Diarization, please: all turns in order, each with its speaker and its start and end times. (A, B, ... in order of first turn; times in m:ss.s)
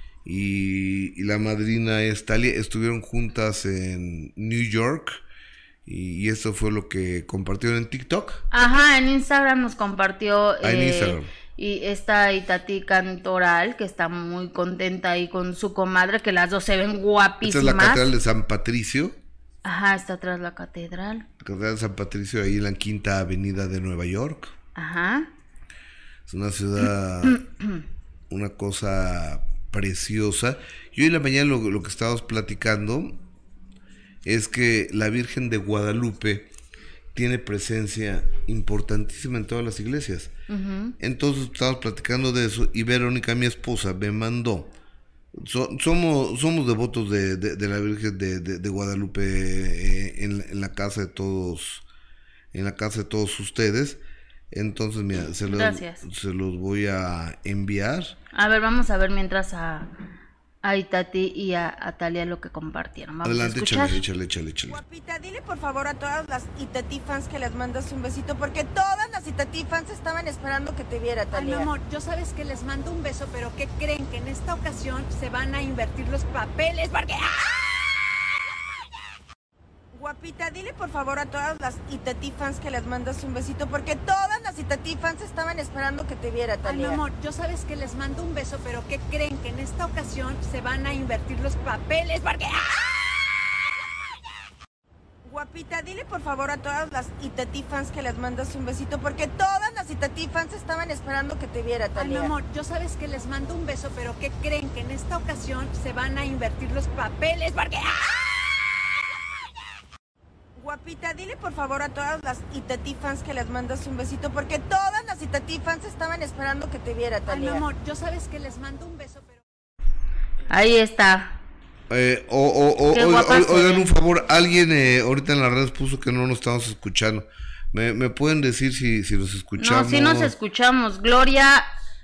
0:00.2-0:05.2 A
0:05.9-0:08.4 A
0:08.5-0:18.1 B
0:10.6-0:11.3 A
0:17.4-0:19.2 A
0:19.6-0:21.3 B
0:21.4-0:24.6 A
0:24.8-0:25.3 B
0:26.3-0:27.4 A
0:27.3-0:27.8 B
0:28.3-0:33.2 A
0:34.2-0:36.5 A
0:37.2-0:40.3 A
0:40.5-0:41.0 B
0:41.0-0:44.7 A
0:45.3-0:51.8 A
0:52.5-0:54.0 A
0:54.5-0:58.2 A
0:55.5-0:56.0 B
0:58.4-0:59.9 B
1:00.6-1:04.0 B
1:03.2-1:04.8 A
1:04.7-1:11.7 C
1:11.3-1:18.4 D
1:19.9-1:27.0 C
1:26.6-1:33.5 D
1:35.2-1:42.4 C
1:42.0-1:49.0 D
1:50.6-1:57.7 C
1:57.3-1:59.4 D
2:00.5-2:01.4 B
2:01.9-2:10.3 A
2:02.9-2:03.9 B
2:09.6-2:11.7 B